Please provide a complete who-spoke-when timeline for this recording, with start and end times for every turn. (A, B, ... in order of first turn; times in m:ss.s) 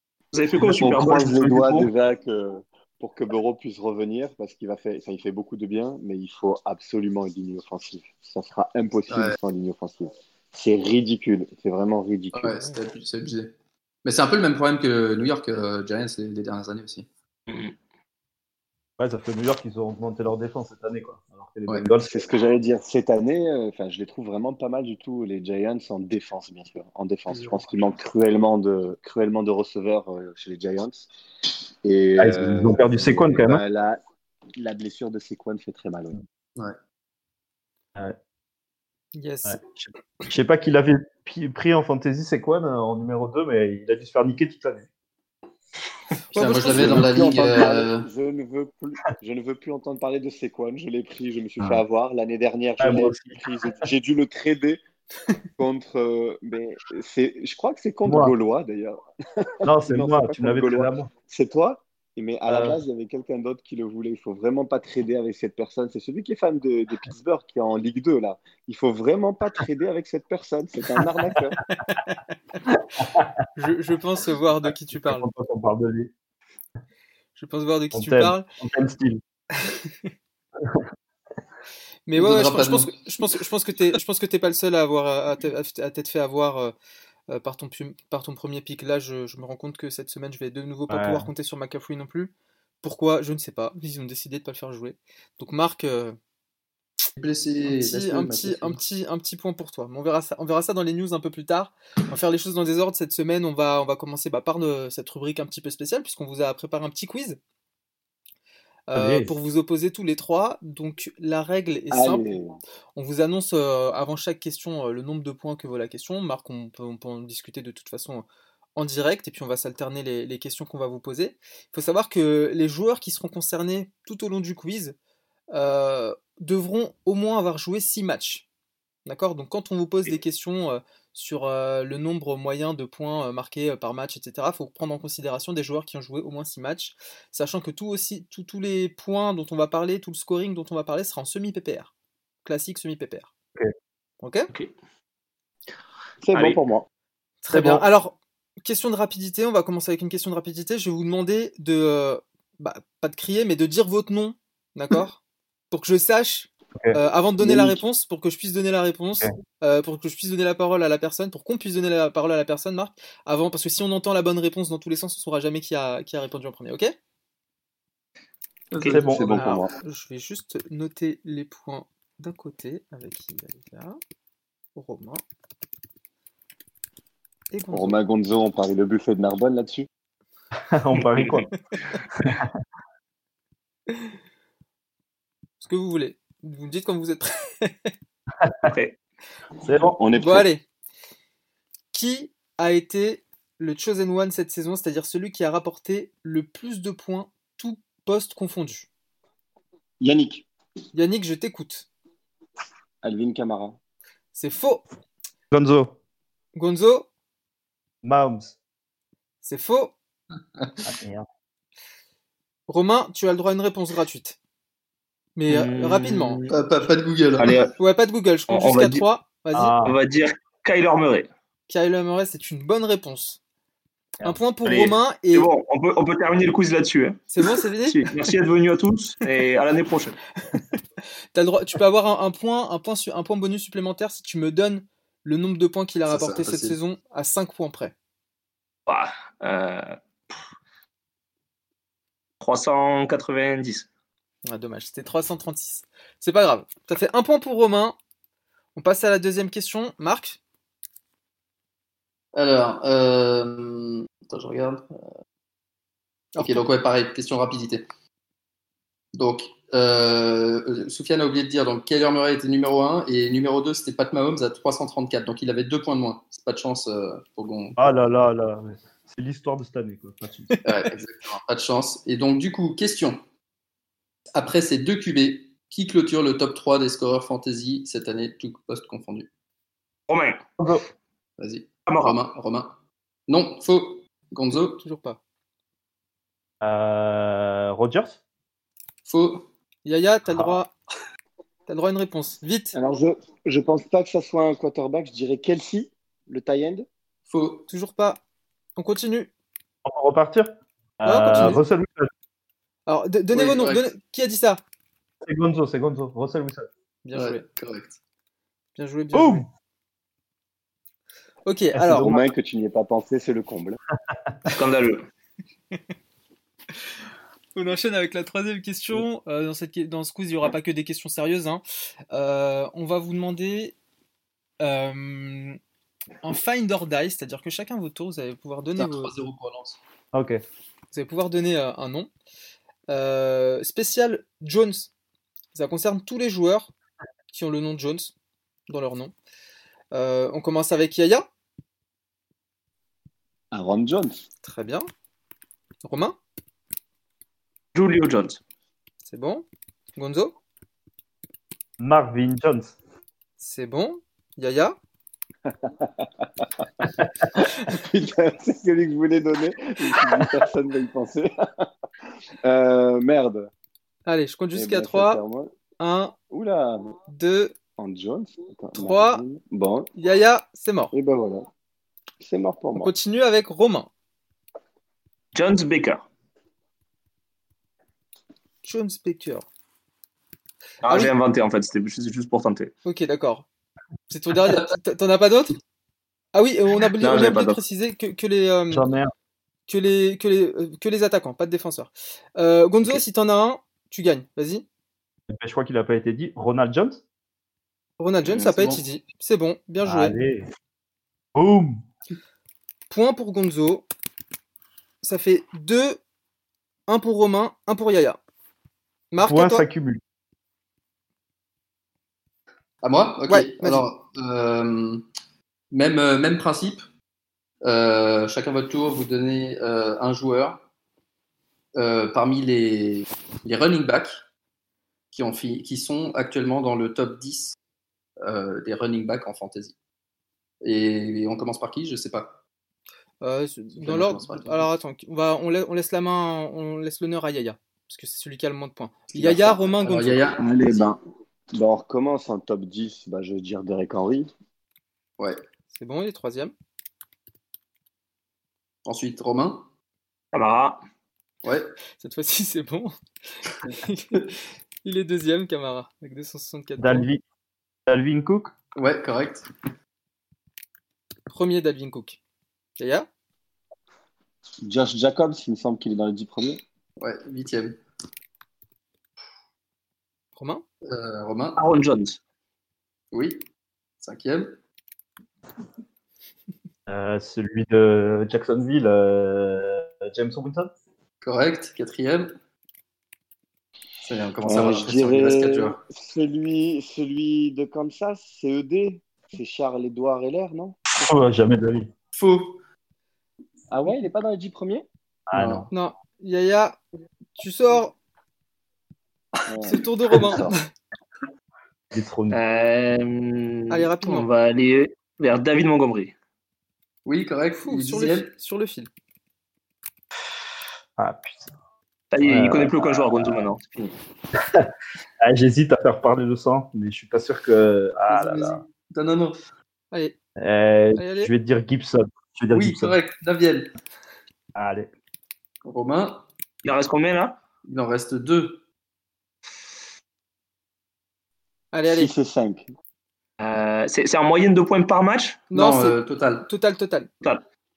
0:00.3-0:01.9 A
0:00.6-0:12.7 B
0:09.1-0:09.4 C
0:12.3-0:13.5 C
0:14.0-0:17.1 C
0:17.5-0:17.7 A
0:19.0-0:22.2 D
0:22.0-0:31.1 B
0:31.8-0:34.0 B
0:32.2-0:33.6 D
0:34.6-0:36.2 B
0:39.1-0:39.6 E
0:39.4-0:44.9 D
0:46.3-0:47.1 E
0:46.3-0:48.1 C
0:46.7-0:54.8 B
0:52.8-0:53.4 D
0:55.6-1:11.6 B
0:58.0-0:58.3 D
0:59.6-1:01.1 D
1:02.5-1:02.8 D
1:11.8-1:12.2 E
1:13.0-1:13.3 D
1:13.6-1:15.3 E
1:14.9-1:16.1 D
1:17.4-1:18.5 E
1:17.9-1:19.2 D
1:19.6-1:20.1 E
1:22.1-1:26.7 E
1:22.2-1:22.9 C
1:27.3-1:36.2 E
1:30.9-1:31.3 D
1:37.2-1:38.8 C
1:37.7-1:47.4 E
1:48.9-1:52.3 E
1:49.0-1:49.3 D
1:51.9-1:52.6 B
1:53.0-1:58.2 E
1:58.8-2:05.0 E
2:05.5-2:08.4 E
2:09.1-2:21.9 E
2:22.4-2:23.3 E
2:24.2-2:24.5 E
2:26.2-2:26.9 B
2:26.3-2:26.6 A
2:27.4-2:35.2 E
2:27.5-2:27.8 D
2:35.7-2:46.9 E
2:37.4-2:37.8 B
2:48.7-2:49.5 C
2:48.9-2:49.4 D
2:48.9-2:49.7 B
2:49.4-2:54.0 E
2:54.8-2:55.2 E
2:57.5-2:58.0 E
2:57.7-2:59.9 B
3:00.7-3:01.5 D
3:01.0-3:01.4 A
3:05.6-3:07.9 E
3:08.6-3:09.0 A
3:09.6-3:10.0 D
3:09.8-3:10.5 B
3:10.2-3:10.6 E
3:11.9-3:18.9 E
3:20.0-3:20.5 B
3:20.9-3:21.9 E
3:23.0-3:23.8 B
3:24.3-3:24.8 E
3:25.5-3:26.0 D
3:26.6-3:27.1 E
3:28.0-3:28.6 D
3:29.4-3:29.9 E
3:30.9-3:31.3 D
3:32.7-3:34.4 E
3:35.4-3:36.4 E
3:35.5-3:36.6 A
3:36.5-3:37.6 C
3:37.4-3:37.8 A
3:37.8-3:39.8 E
3:38.5-3:39.1 A
3:39.5-3:40.0 D
3:39.8-3:41.3 A
3:41.7-3:43.4 E
3:44.2-3:45.5 E
3:44.6-3:47.2 A
3:47.3-3:48.1 E
3:47.9-3:50.2 A
3:51.3-3:57.9 E
3:56.1-3:56.8 C
3:58.9-4:00.0 A
4:02.4-4:03.9 A
4:04.4-4:08.0 E
4:08.8-4:10.4 E
4:12.4-4:15.0 C
4:16.4-4:16.6 E
4:16.4-4:17.8 C
4:19.2-4:28.0 C
4:27.8-4:30.5 D
4:30.6-4:33.2 C
4:34.4-4:39.3 C
4:40.1-4:40.5 A
4:40.6-4:40.8 D
4:41.4-4:42.7 C
4:41.9-4:42.2 A
4:43.3-4:44.8 C
4:44.8-4:45.2 E
4:46.6-4:48.2 D
4:49.0-4:49.5 C
4:49.8-4:50.7 E
4:50.3-4:50.6 D
4:51.7-4:52.8 E
4:52.8-4:56.9 B
4:57.3-4:57.7 C
4:57.7-4:58.2 E
4:58.8-4:59.3 E
4:59.8-5:02.1 D
5:01.0-5:01.6 E
5:02.9-5:04.6 E
5:03.3-5:03.9 C
5:05.2-5:06.7 D
5:07.0-5:07.4 E
5:07.1-5:08.0 C
5:08.8-5:09.5 E
5:09.1-5:09.5 D
5:11.5-5:12.1 E
5:11.8-5:12.3 D
5:12.0-5:13.8 B
5:14.5-5:15.0 A
5:17.6-5:23.8 E
5:24.6-5:25.6 E
5:26.2-5:29.1 E
5:28.8-5:29.8 C
5:30.1-5:30.4 D
5:30.9-5:32.1 E
5:32.9-5:34.9 E
5:35.5-5:36.7 E
5:37.3-5:38.1 E
5:38.7-5:39.1 E
5:39.9-5:41.3 E
5:43.5-5:44.2 B
5:44.4-5:44.9 E
5:45.8-5:46.2 E
5:47.7-5:48.4 A
5:49.0-5:49.4 E
5:50.0-5:50.4 E
5:51.8-5:52.7 D
5:53.4-5:54.8 E
5:55.5-6:01.7 B
6:02.4-6:03.5 B
6:04.1-6:05.2 E
6:04.6-6:05.5 B
6:05.8-6:06.2 E
6:06.3-6:07.0 B
6:07.1-6:07.6 E
6:07.8-6:09.9 B
6:08.8-6:09.2 E
6:10.0-6:10.9 E
6:10.9-6:11.5 B
6:12.2-6:12.9 B
6:12.8-6:13.9 E
6:15.3-6:16.1 A
6:18.6-6:19.5 E
6:20.8-6:22.7 A
6:22.8-6:23.5 E
6:24.1-6:25.6 E
6:26.3-6:28.9 E
6:27.0-6:27.6 A
6:28.7-6:29.1 D
6:29.7-6:34.6 E
6:35.3-6:37.0 D
6:38.0-6:40.1 E
6:38.2-6:38.8 C
6:39.8-6:40.5 D
6:41.4-6:41.8 D
6:42.9-6:43.8 E
6:45.0-6:46.0 E
6:46.9-6:48.2 E
6:49.1-6:49.6 E
6:49.2-6:50.0 D
6:52.8-6:55.0 C
6:53.3-6:53.8 E
6:55.7-6:56.9 C
6:57.6-7:00.6 C
7:01.8-7:04.2 C
7:05.1-7:07.6 C
7:08.2-7:09.8 C
7:10.6-7:12.4 C
7:13.2-7:20.3 E
7:13.8-7:14.7 C
7:19.1-7:20.4 C
7:20.4-7:21.0 B
7:21.5-7:24.3 B
7:25.7-7:26.5 E
7:28.9-7:29.7 C
7:30.3-7:30.8 A
7:31.4-7:31.7 C
7:32.0-7:32.9 E
7:33.6-7:37.1 E
7:36.8-7:37.2 D
7:37.9-7:38.5 D
7:38.8-7:39.5 C
7:41.3-7:42.2 E
7:42.8-7:43.1 E
7:44.6-7:46.6 B
7:47.0-7:47.8 C
7:50.4-7:50.6 E
7:50.8-7:51.6 C
7:51.6-7:52.2 A
7:53.1-7:53.4 C
7:54.0-7:54.6 C
7:56.9-8:00.7 D
8:01.2-8:02.4 C
8:04.0-8:05.8 C
8:04.4-8:10.8 B
8:11.0-8:11.9 D
8:12.1-8:12.6 C
8:13.7-8:14.9 B
8:15.3-8:15.7 D
8:15.3-8:15.7 C
8:15.7-8:16.8 E
8:17.4-8:18.0 E
8:19.5-8:20.6 B
8:19.6-8:20.6 E
8:21.9-8:22.4 D
8:22.3-8:26.1 A
8:23.7-8:24.3 E
8:27.1-8:28.3 C
8:27.6-8:28.9 E
8:31.0-8:31.5 D
8:32.1-8:34.0 A
8:32.2-8:33.5 D
8:35.2-8:38.6 D
8:38.1-8:39.4 C
8:40.4-8:43.0 D
8:41.0-8:41.3 E
8:42.5-8:43.7 C
8:44.6-8:44.9 D
8:45.6-8:46.2 C
8:46.6-8:47.4 A
8:47.6-8:48.6 C
8:51.7-8:52.1 E
8:51.9-8:52.7 B
8:53.4-8:55.4 A
8:55.5-8:57.1 E
8:55.5-8:56.5 C